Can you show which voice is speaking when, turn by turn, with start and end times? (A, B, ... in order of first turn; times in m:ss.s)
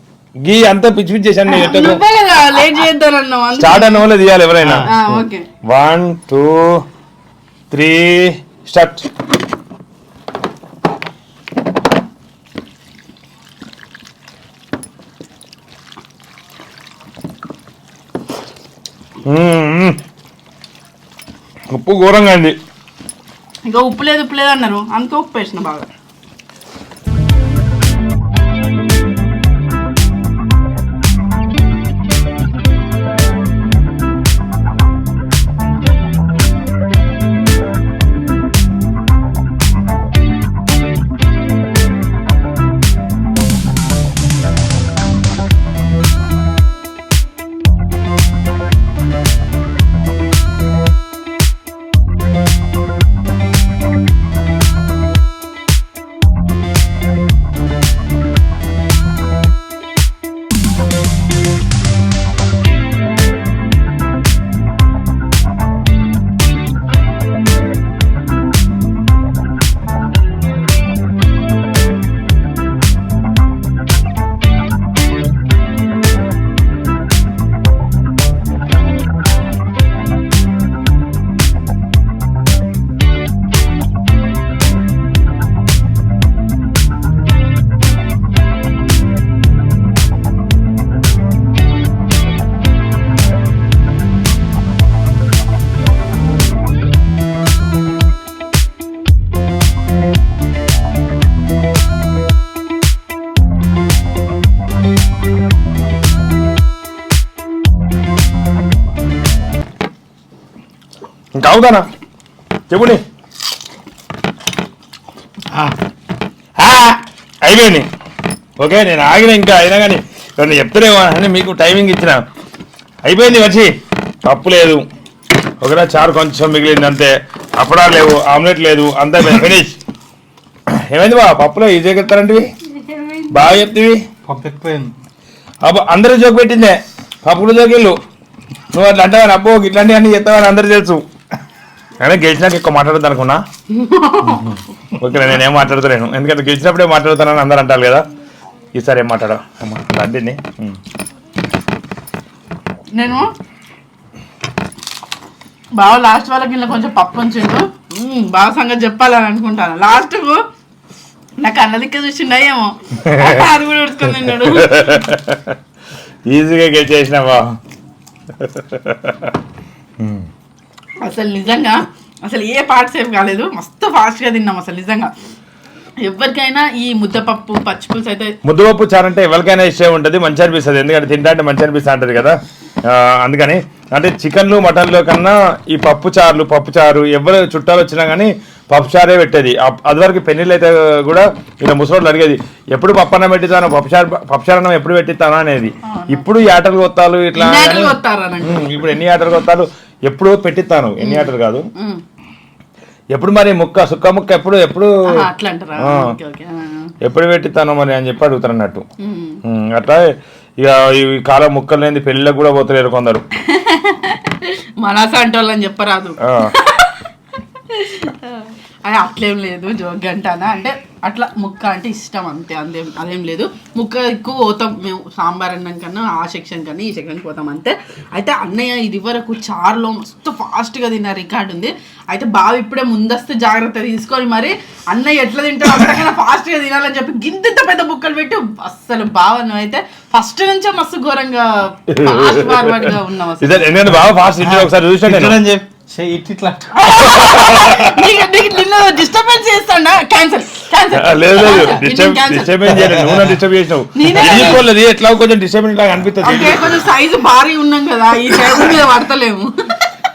0:00.4-0:02.0 A
0:01.5-0:04.0 B
0:03.6-0:04.9 A
0:04.6-0:05.2 C
0:04.8-0:05.5 B
0:05.7-0:06.8 A
0:07.7-0:09.1 A
0:19.3-0:20.0 A
0:21.7-0:22.6 A
0:23.6-0:25.9 B
1:51.4-1:51.9 A
1:52.7-1:53.0 A
1:55.5-1:55.8 C
1:56.6-1:57.9 A
1:58.6-2:02.2 A
2:03.0-2:03.7 A
2:04.3-2:04.8 A
2:05.6-2:09.8 A
2:10.9-2:12.5 A
2:12.8-2:13.5 B
2:13.3-2:14.0 A
2:14.3-2:14.9 C
2:15.6-2:18.0 A
2:18.7-2:21.0 A
2:22.0-2:23.4 A
2:23.7-2:24.6 B
2:25.0-2:28.0 A
2:28.8-2:30.8 A
2:33.0-2:33.3 B
2:35.8-2:40.4 B
2:41.4-2:45.0 B
2:43.0-2:43.5 A
2:44.2-2:45.6 A
2:46.3-2:47.5 A
2:48.4-2:49.4 A
2:50.0-2:50.3 A
2:51.0-2:55.1 B
2:56.0-2:58.4 B
2:58.4-3:21.7 A
3:15.8-3:16.3 B
3:17.4-3:18.8 B
3:21.0-3:22.0 B
3:23.1-3:24.9 A
3:25.2-3:26.9 B
3:25.8-3:26.2 A
3:27.0-3:28.8 A
3:29.0-3:29.4 B
3:29.4-3:33.2 A
3:33.4-3:37.0 B
3:36.2-3:36.5 A
3:37.7-4:03.9 B
4:01.9-4:05.4 A
4:04.4-4:06.7 C
4:06.7-4:12.6 B
4:07.0-4:08.1 A
4:10.9-4:16.8 A
4:12.8-4:13.3 C
4:14.0-4:14.6 B
4:16.2-4:19.9 B